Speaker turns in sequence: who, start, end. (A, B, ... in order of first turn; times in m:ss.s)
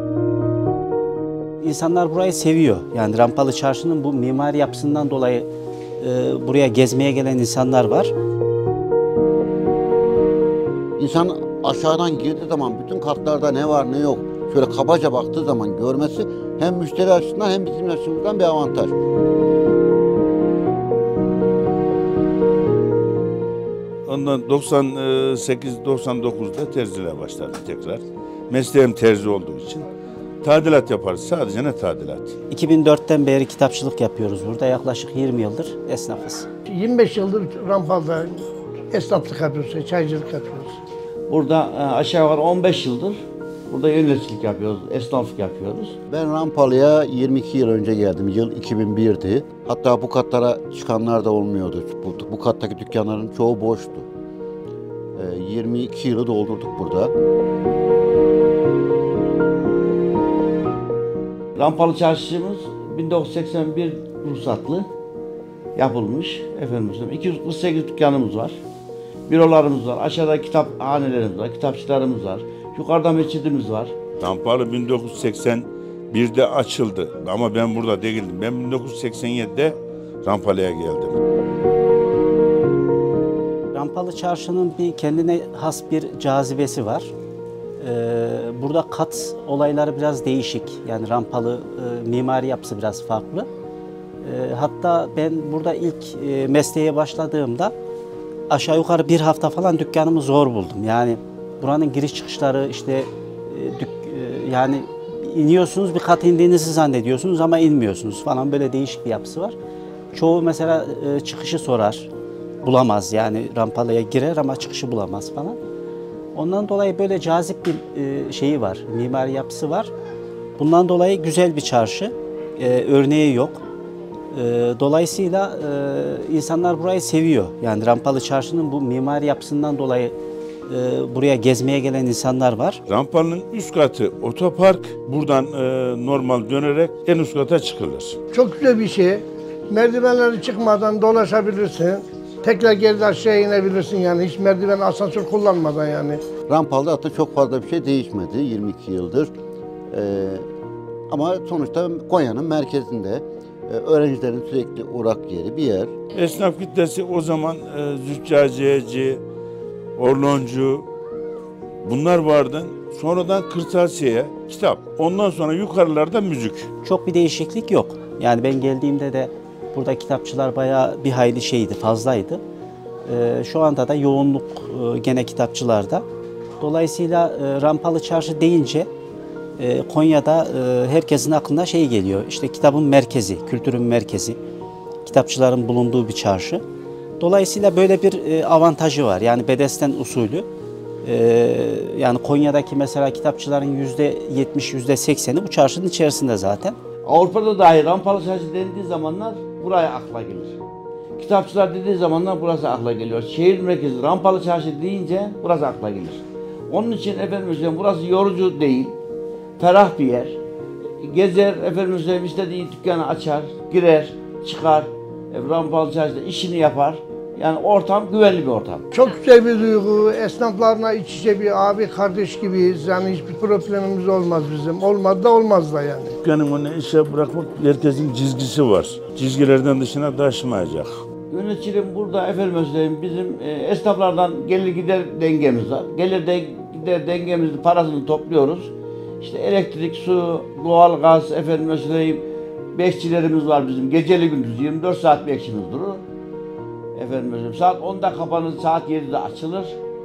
0:01.6-0:08.1 A
0:11.0-0:19.0 B
0:24.1-0:29.8 C
0:30.4-0:32.4 C
0:32.5-0:36.5 A
0:36.7-0:40.8 D
0:41.3-0:46.0 E
0:46.1-0:54.1 B
0:55.2-0:57.1 B
1:01.6-1:04.9 E
1:05.8-1:08.6 E
1:09.3-1:13.9 E
1:14.2-1:21.2 C
1:23.7-1:27.1 A
1:27.8-1:33.5 A
1:34.2-1:37.7 A
1:38.5-1:49.6 A
1:50.1-1:52.1 A
1:52.6-1:55.6 A
1:56.4-1:59.9 A
2:00.6-2:03.6 A
2:04.3-2:10.1 A
2:10.7-2:12.8 A
2:12.9-2:18.2 C
2:18.3-2:26.2 D
2:26.5-2:29.3 B
2:29.9-2:30.4 B
2:31.1-2:35.9 B
2:36.1-2:39.2 C
2:40.0-2:40.9 C
2:41.8-2:46.7 C
2:46.8-2:52.4 A
2:53.1-2:56.0 A
2:56.6-2:58.9 A
2:59.6-3:04.4 A
3:05.0-3:06.6 A
3:07.2-3:10.5 A
3:11.0-3:16.8 A
3:17.0-3:20.6 E
3:21.2-3:29.0 E
3:29.6-3:30.4 E
3:31.0-3:38.8 E
3:38.9-3:46.2 D
3:46.2-3:51.0 C
3:51.3-4:06.0 E
4:07.0-4:09.8 E